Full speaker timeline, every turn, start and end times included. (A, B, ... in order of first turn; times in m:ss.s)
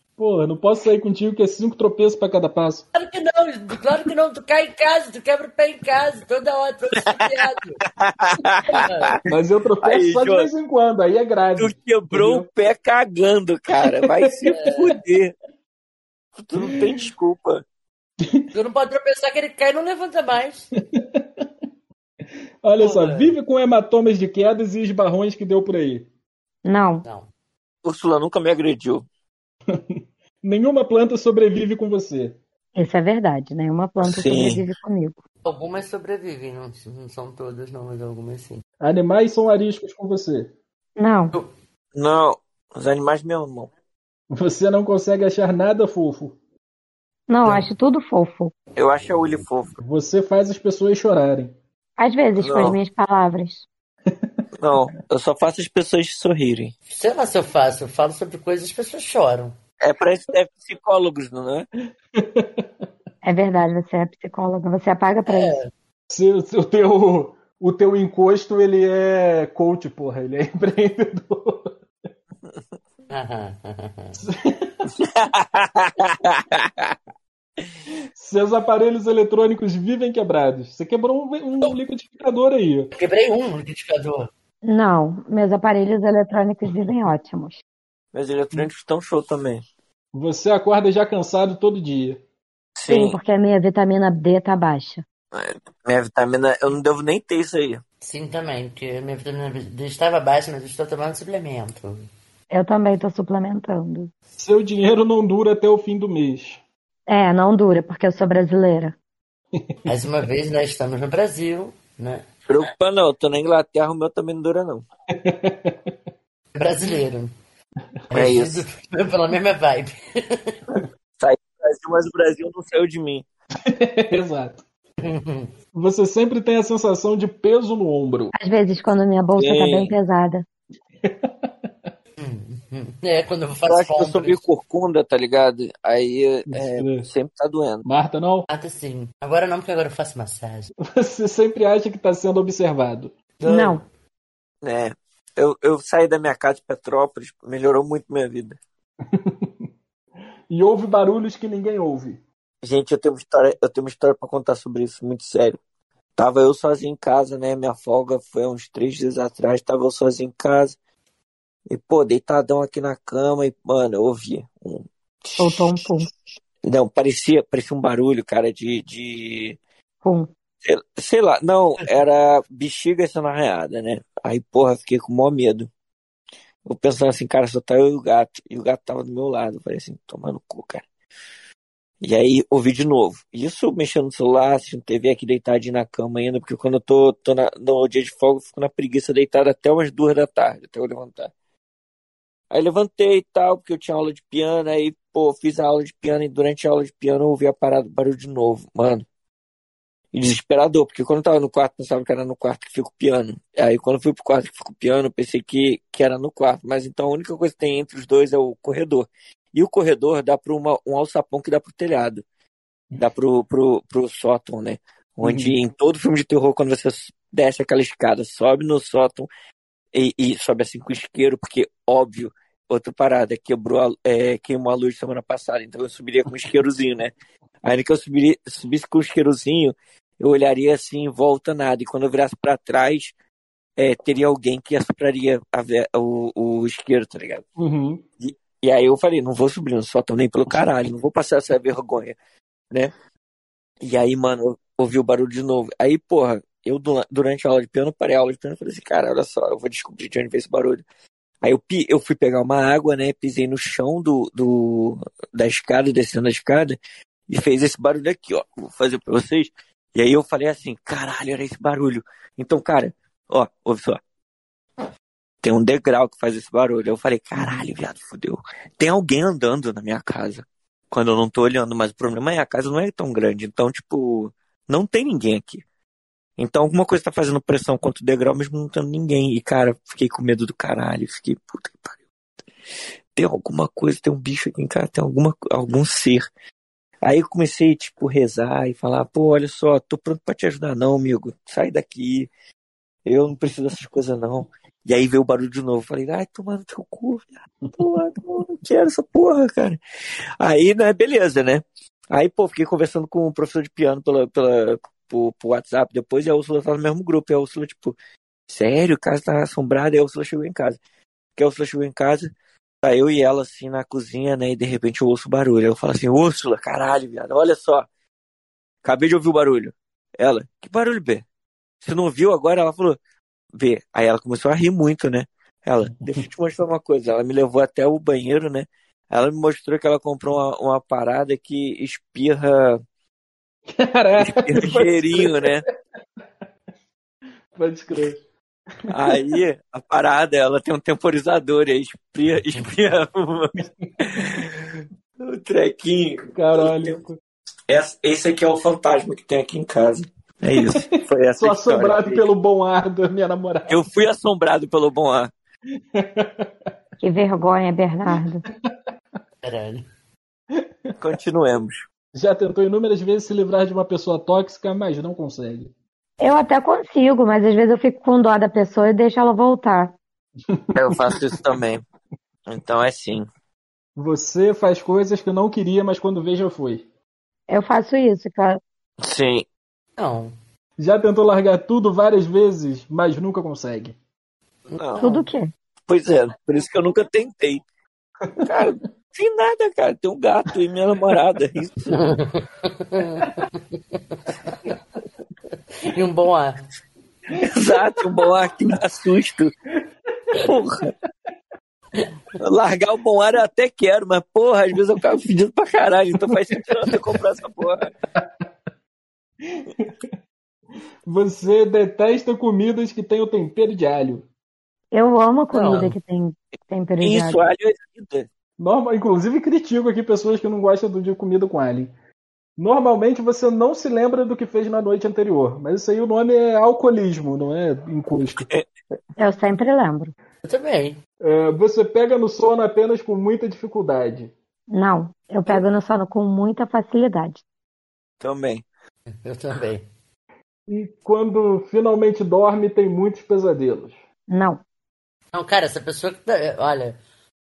0:00.2-0:02.8 A
0:02.9-0:07.8 B
0:08.0-0:09.2 C
0:08.7-0:09.2 B
0:09.3-0:12.5 A
0:09.8-0:10.5 C
0:11.6-0:15.3 C
0:14.1-0:14.5 A
0:14.5-0:14.9 B
0:16.4-0:17.6 C
0:16.6-0:16.9 A
0:18.2-0:18.4 A
0:18.5-0:20.7 B
0:20.9-0:21.5 A
0:22.6-0:26.1 A
0:22.8-0:23.4 B
0:26.6-0:27.0 D
0:27.0-0:27.3 B
0:27.8-0:29.1 C
0:29.7-0:32.4 A
0:32.8-0:35.2 D
0:34.0-0:34.6 C
0:35.4-0:38.6 B
0:38.8-0:40.5 A
0:41.0-0:41.4 D
0:42.0-0:43.7 C
0:44.3-0:46.4 A
0:47.3-0:48.5 D
0:48.8-0:49.8 C
0:49.8-0:51.6 A
0:52.0-0:53.7 D
0:52.4-0:52.8 C
0:54.1-0:54.4 A
0:54.6-0:56.7 C
0:56.9-0:59.6 B
0:59.8-1:01.7 C
1:02.2-1:02.8 A
1:03.2-1:05.6 D
1:05.3-1:05.7 B
1:06.1-1:11.8 A
1:13.1-1:14.2 B
1:14.2-1:14.9 A
1:15.0-1:17.0 C
1:18.2-1:22.9 A
1:23.0-1:24.3 B
1:24.6-1:27.6 D
1:28.1-1:29.6 C
1:30.1-1:32.2 A
1:32.8-1:33.2 C
1:32.9-1:35.0 D
1:35.3-1:37.8 C
1:38.0-1:42.1 B
1:42.5-1:44.1 D
1:44.4-1:46.6 A
1:47.1-1:49.0 D
1:49.5-1:49.8 A
1:49.9-1:52.3 B
1:52.5-1:54.8 C
1:55.1-1:56.0 A
1:56.5-1:57.3 B
1:58.1-2:00.6 B
1:58.1-1:58.6 C
2:01.2-2:03.2 C
2:03.7-2:04.6 A
2:05.0-2:05.5 B
2:05.7-2:08.3 A
2:08.4-2:10.4 D
2:09.4-2:09.9 C
2:11.0-2:11.9 A
2:12.2-2:14.4 B
2:13.7-2:17.8 C
2:16.5-2:17.1 A
2:17.8-2:18.5 A
2:18.5-2:20.7 B
2:20.9-2:23.1 A
2:23.4-2:23.8 B
2:23.5-2:23.8 D
2:24.6-2:28.6 C
2:29.1-2:29.7 A
2:30.5-2:32.2 A
2:32.6-2:35.6 C
2:36.2-2:40.8 C
2:41.7-2:45.9 C
2:45.4-2:46.1 D
2:46.6-2:49.6 C
2:50.0-2:50.3 D
2:50.6-2:55.7 C
2:56.6-3:00.8 C
3:02.0-3:11.3 C
3:12.5-3:19.1 C
3:20.1-3:32.2 C
3:33.0-3:39.3 C
3:35.2-3:35.6 A
3:39.9-3:47.1 C
3:47.6-3:53.1 C
3:53.8-3:57.5 C
3:57.6-3:58.0 A
3:58.2-4:02.2 C
4:03.8-4:10.8 C
4:11.4-4:16.8 C
4:17.3-4:24.0 C
4:25.4-4:35.6 C
4:27.4-4:27.7 A
4:36.4-4:42.0 C
4:43.2-4:46.3 C
4:47.0-4:52.3 C
4:53.1-4:59.8 C
5:00.4-5:08.0 C
5:08.5-5:10.8 C
5:11.4-5:17.9 C
5:18.8-5:21.2 C
5:21.8-5:23.0 C
5:23.6-5:32.8 C
5:33.7-5:35.6 A
5:34.2-5:35.6 C
5:37.6-5:38.2 A
5:38.9-5:39.2 A
5:38.9-5:44.7 C
5:45.2-5:47.0 C
5:46.3-5:47.2 A
5:47.7-5:52.3 C
5:51.4-5:53.8 A
5:53.7-5:55.3 C
5:55.9-5:56.7 A
5:57.0-5:58.4 D
5:58.5-5:58.7 A
5:59.4-5:59.8 B
6:00.5-6:00.9 A
6:01.0-6:01.8 C
6:02.1-6:05.7 A
6:06.2-6:10.0 D
6:10.5-6:11.4 A
6:10.7-6:11.8 C
6:12.5-6:13.3 C
6:14.0-6:16.8 A
6:17.5-6:18.6 D
6:19.0-6:19.5 C
6:20.0-6:20.3 B
6:20.8-6:24.0 A
6:24.7-6:25.2 B
6:24.8-6:25.2 C
6:25.0-6:25.5 D
6:25.9-6:27.6 C
6:28.3-6:28.6 A
6:28.4-6:32.0 C
6:31.9-6:34.7 B
6:35.8-6:36.6 B
6:37.3-6:38.0 A
6:37.4-6:39.5 C
6:40.4-6:40.9 C
6:42.4-6:47.9 C
6:46.3-6:47.0 A
6:48.2-6:48.5 A
6:49.4-6:50.1 A
6:51.1-6:54.3 A
6:54.9-6:57.4 D
6:55.5-6:56.0 B
6:57.0-6:58.3 C
6:58.6-7:01.9 A
7:02.6-7:08.5 A
7:09.2-7:10.1 D
7:10.4-7:11.0 B
7:11.2-7:14.3 A
7:14.7-7:17.4 D
7:18.2-7:18.6 C
7:19.1-7:19.8 B
7:20.7-7:24.0 A
7:24.3-7:24.6 D
7:25.3-7:27.0 B